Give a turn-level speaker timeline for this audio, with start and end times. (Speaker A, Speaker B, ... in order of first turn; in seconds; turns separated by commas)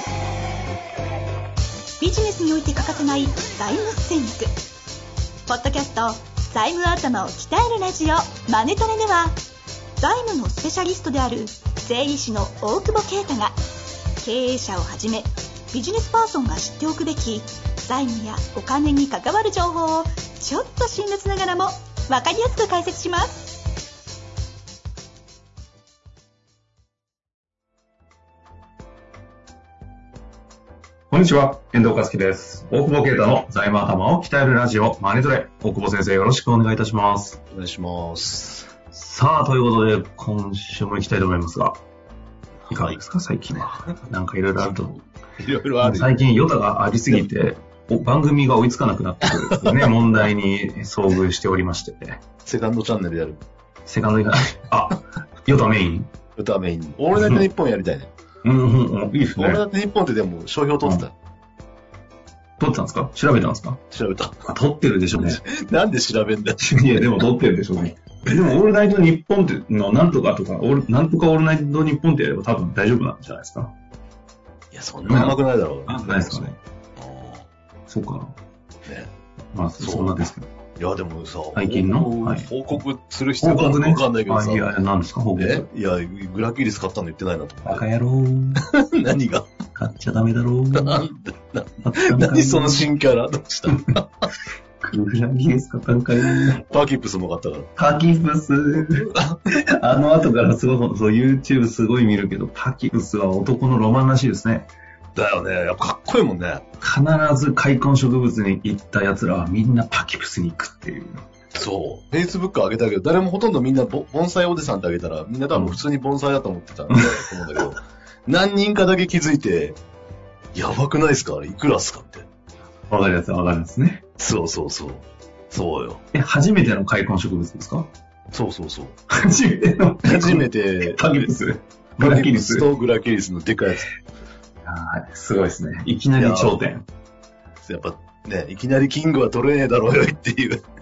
Speaker A: 2.0-4.5, Speaker A: 5.5-9.3, Speaker A: 10.0-13.6, Speaker A: 14.2-23.6, Speaker B: 31.1-37.4, Speaker C: 37.5-38.7, Speaker B: 38.9-41.8, Speaker C: 42.7-43.0, Speaker B: 42.7-45.0, Speaker C: 43.6-44.0, Speaker C: 45.4-46.2, Speaker B: 45.8-52.2, Speaker C: 49.2-50.0, Speaker C: 52.4-53.4, Speaker B: 53.9-56.1, Speaker C: 56.4-58.1, Speaker B: 57.2-57.4, Speaker B: 58.4-59.6, Speaker C: 59.4-61.1, Speaker B: 62.6-63.8, Speaker C: 63.9-64.5, Speaker B: 64.5-65.4, Speaker C: 65.1-67.3, Speaker B: 66.6-73.7, Speaker C: 74.7-77.5, Speaker B: 75.1-76.6, Speaker B: 77.9-78.3, Speaker C: 78.8-79.1, Speaker B: 79.5-80.5, Speaker C: 79.8-84.7, Speaker B: 81.5-82.5, Speaker B: 83.4-85.7, Speaker C: 85.4-87.9, Speaker B: 87.7-88.7, Speaker C: 88.6-89.5, Speaker B: 89.8-91.1, Speaker C: 90.7-94.1, Speaker B: 91.8-92.9, Speaker B: 94.8-96.7, Speaker C: 96.3-97.7, Speaker B: 97.8-104.7, Speaker C: 99.0-99.4, Speaker C: 105.2-106.7, Speaker B: 106.8-111.2, Speaker C: 111.5-119.8, Speaker B: 115.5-115.8, Speaker B: 116.9-117.3, Speaker C: 120.5-122.3, Speaker B: 122.9-124.0, Speaker C: 124.2-126.0, Speaker B: 126.1-127.9, Speaker C: 128.3-129.0, Speaker B: 129.1-132.7, Speaker C: 130.0-131.3, Speaker C: 132.0-133.9, Speaker B: 134.6-136.9, Speaker C: 136.2-136.6, Speaker C: 137.6-140.6